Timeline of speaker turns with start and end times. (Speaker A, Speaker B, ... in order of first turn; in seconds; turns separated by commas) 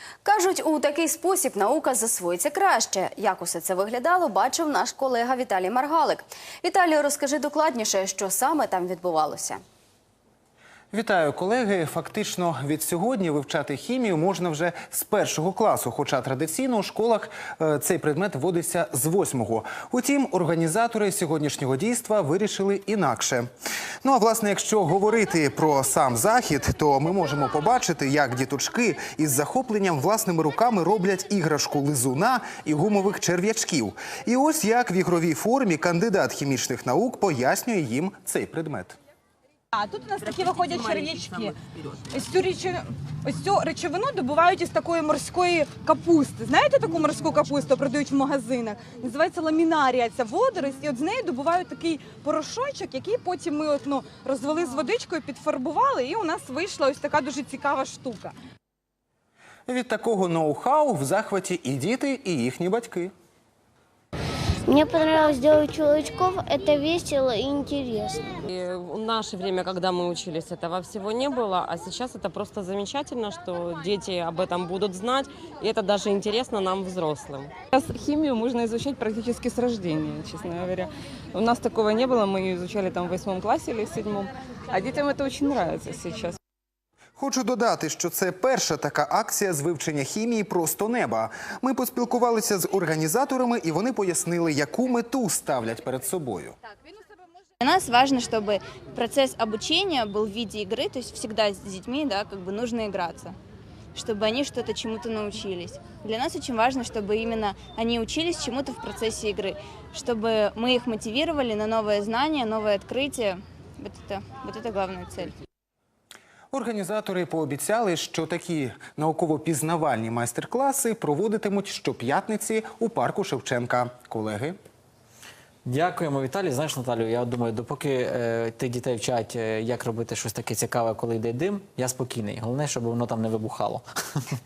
Speaker A: 0.2-9.6, Speaker B: 10.9-23.5, Speaker B: 24.0-39.0, Speaker C: 39.7-41.5, Speaker C: 42.1-58.3, Speaker B: 59.7-63.1, Speaker D: 64.7-68.3, Speaker E: 68.5-77.5, Speaker F: 77.7-86.4, Speaker B: 87.2-96.6, Speaker G: 97.6-103.3, Speaker G: 104.0-115.3, Speaker B: 116.5-124.6, Speaker H: 125.7-134.3